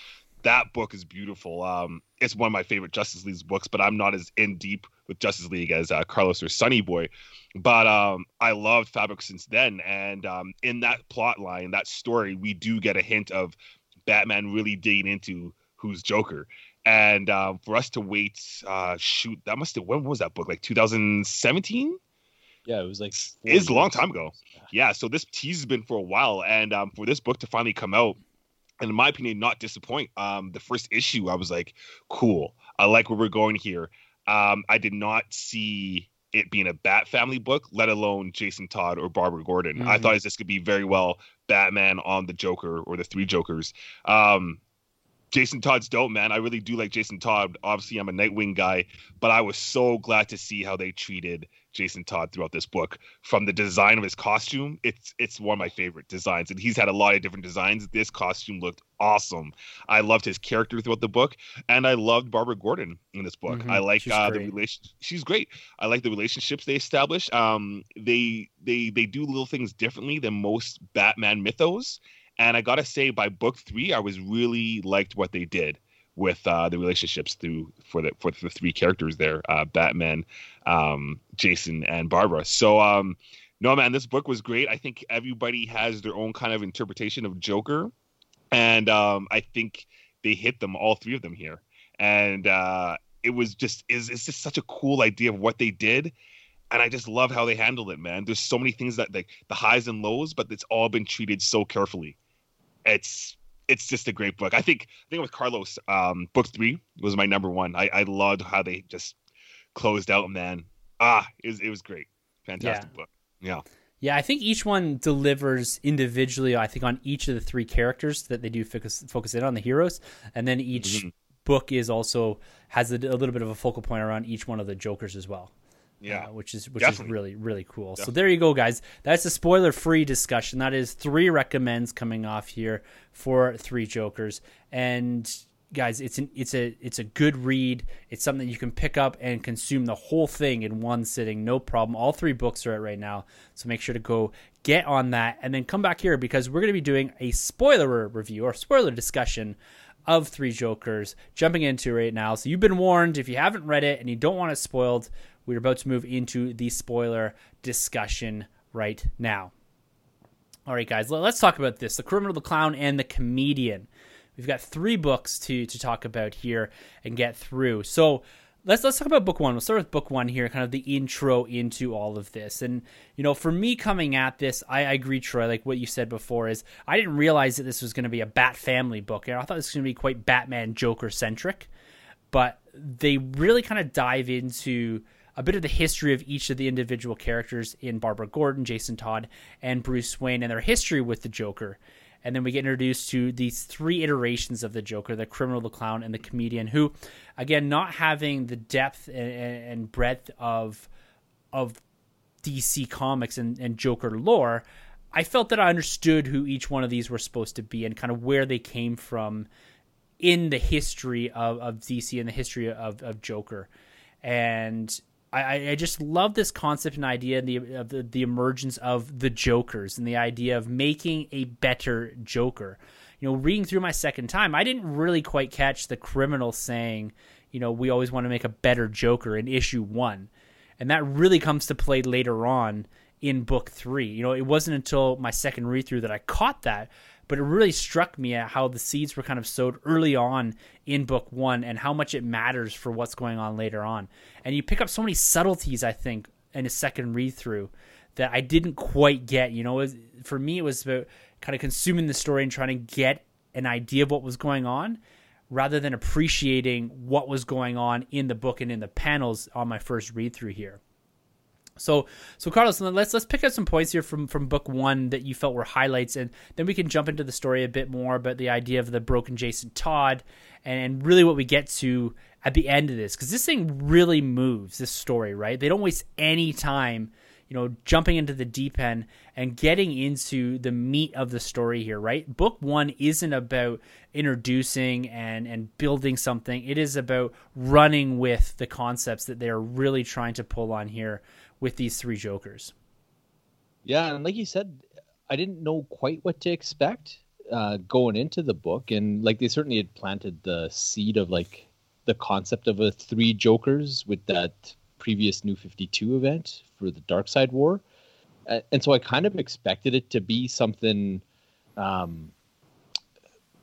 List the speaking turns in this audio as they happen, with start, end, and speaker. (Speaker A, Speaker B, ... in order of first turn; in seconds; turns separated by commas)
Speaker A: 0.4-13.6, Speaker A: 14.1-22.0, Speaker B: 22.7-24.1, Speaker A: 23.2-28.2, Speaker A: 28.8-44.6, Speaker C: 39.8-40.1, Speaker A: 45.3-87.9, Speaker C: 63.5-64.5, Speaker A: 88.5-96.1, Speaker A: 96.7-102.2, Speaker A: 102.8-109.2, Speaker A: 109.8-113.6, Speaker C: 112.6-112.9, Speaker C: 114.0-125.5, Speaker A: 120.8-121.1, Speaker A: 126.0-126.3, Speaker C: 126.1-159.5, Speaker A: 126.8-127.1, Speaker C: 160.7-181.7, Speaker C: 182.3-200.9, Speaker C: 201.5-201.8, Speaker C: 202.4-209.5, Speaker C: 210.2-213.7, Speaker C: 214.2-255.0, Speaker C: 255.5-260.8, Speaker C: 261.8-292.7, Speaker B: 293.9-307.8, Speaker B: 308.5-311.2, Speaker B: 311.8-312.3